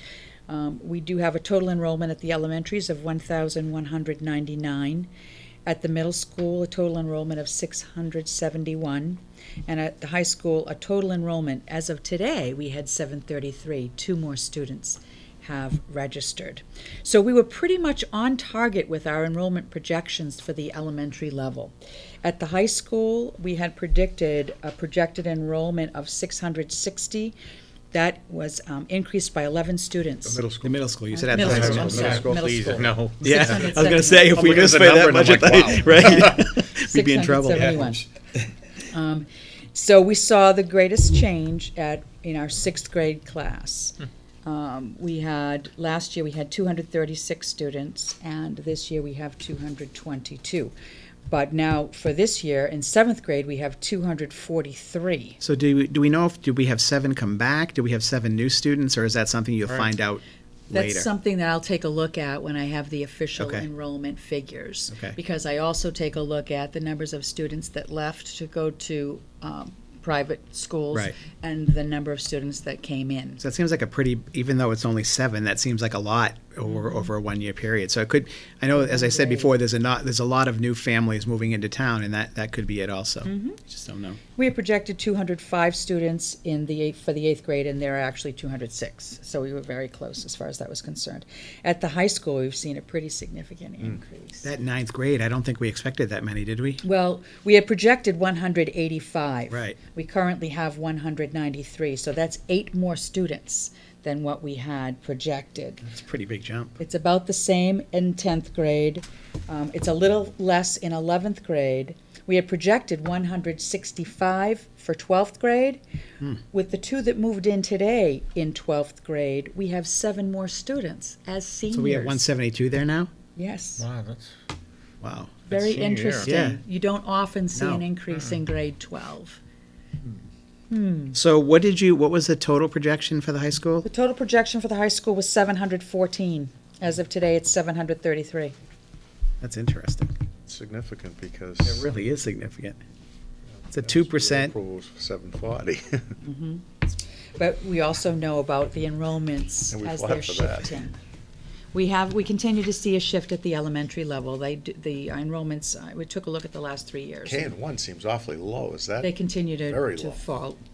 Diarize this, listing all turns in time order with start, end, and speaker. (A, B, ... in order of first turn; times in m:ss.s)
0:00.5-0:05.1 A
0:05.7-0:27.4 A
0:27.9-0:30.4 A
0:30.3-0:32.9 B
0:30.6-0:32.2 C
0:31.1-0:34.6 A
0:31.3-0:33.8 D
0:33.2-0:37.9 C
0:34.1-0:36.4 B
0:35.9-0:38.0 A
0:37.5-0:37.8 D
0:38.8-0:50.7 A
0:51.3-0:55.4 A
0:55.4-1:01.1 C
1:00.7-1:13.4 A
1:03.4-1:03.7 C
1:04.9-1:05.2 C
1:13.4-1:24.2 C
1:16.7-1:17.1 A
1:18.8-1:19.5 A
1:23.3-1:23.6 A
1:24.4-1:34.5 A
1:34.4-1:36.8 C
1:36.8-1:45.9 A
1:39.5-1:39.8 C
1:45.8-1:46.8 C
1:46.8-1:55.8 A
1:56.5-2:02.3 A
2:01.7-2:03.1 C
2:03.4-2:03.8 A
2:03.8-2:04.3 D
2:05.0-2:05.4 C
2:05.5-2:09.4 A
2:05.5-2:06.3 D
2:06.2-2:06.6 C
2:07.6-2:07.8 C
2:10.7-2:11.2 A
2:11.1-2:13.9 C
2:13.8-2:18.6 A
2:19.4-2:20.1 C
2:20.5-2:21.9 B
2:21.7-2:22.8 C
2:23.6-2:26.2 B
2:23.7-2:24.6 C
2:26.2-2:26.8 A
2:27.4-2:31.0 A
2:29.7-2:30.8 B
2:31.7-2:37.6 A
2:37.2-2:40.2 B
2:39.0-2:40.6 A